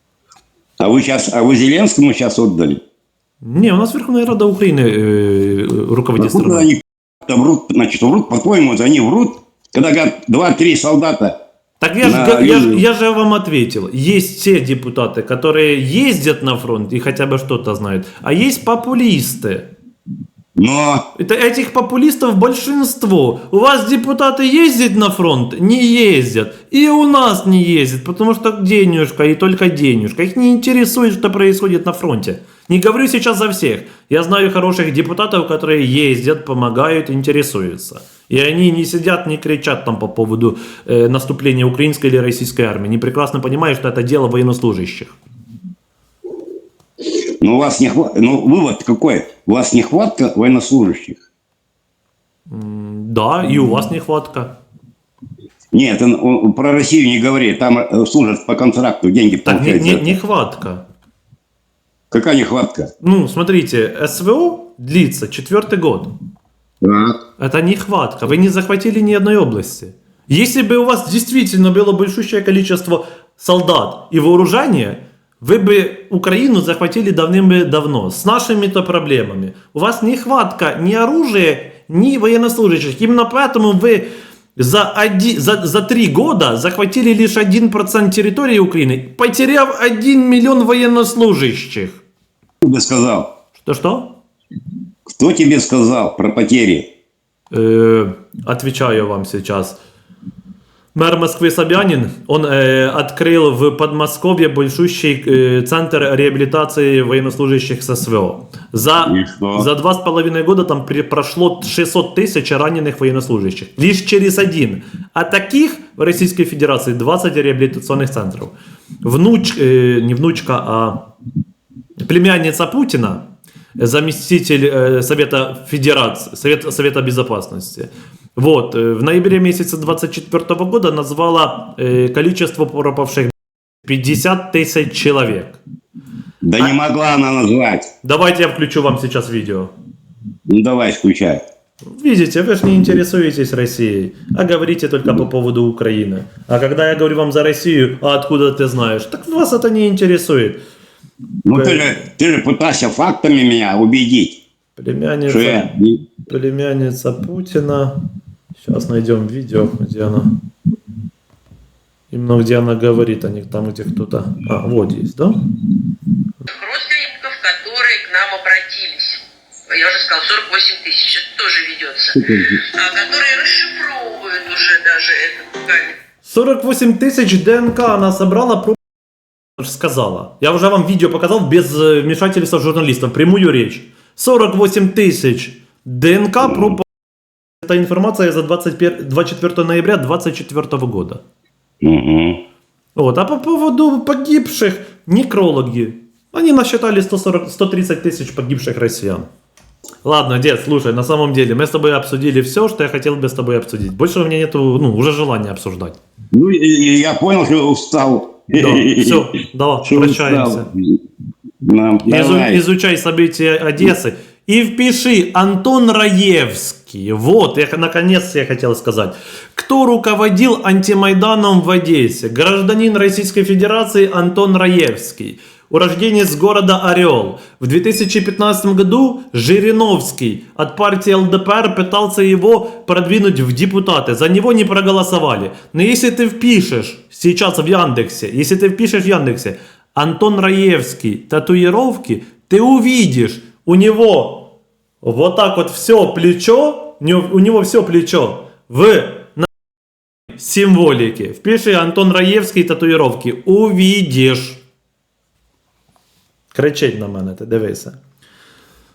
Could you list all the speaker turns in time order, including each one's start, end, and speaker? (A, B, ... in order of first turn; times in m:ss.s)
0:00.8-0:02.8 A
0:03.4-0:06.7 B
0:06.2-0:11.4 A
0:11.8-0:19.7 B
0:12.0-0:12.8 A
0:20.6-0:21.0 A
0:21.1-0:45.2 B
0:47.4-0:51.2 A
0:52.5-0:54.6 B
0:55.7-1:00.2 A
0:59.4-1:00.8 B
1:02.1-1:02.9 A
1:03.0-1:06.1 B
1:06.8-1:07.2 A
1:07.4-1:32.0 B
1:32.6-1:33.3 A
1:33.6-1:34.2 B
1:35.1-1:36.9 A
1:37.5-1:39.8 B
1:40.9-2:01.0 B
1:49.0-1:49.7 A
2:02.0-2:03.3 B
2:03.8-2:15.6 B
2:16.4-2:17.9 A
2:18.0-2:19.7 B
2:20.5-2:21.4 A
2:21.9-2:30.6 B
2:31.4-2:34.4 A
2:31.5-2:31.9 B
2:34.8-2:35.7 B
2:35.3-2:36.0 A
2:36.3-2:38.0 B
2:38.6-2:40.3 B
2:42.1-2:45.4 B
2:46.5-2:56.0 C
2:52.1-2:52.6 A
2:56.2-2:58.8 B
2:59.6-3:06.9 B
3:06.4-3:06.7 A
3:07.6-3:11.2 B
3:11.8-3:12.4 A
3:13.0-3:19.3 B
3:20.0-3:26.0 B
3:26.3-3:29.2 A
3:28.5-3:30.7 B
3:29.8-3:31.0 A
3:31.6-3:32.6 A
3:32.1-4:09.5 B
4:10.4-4:14.6 B
4:16.5-4:18.0 B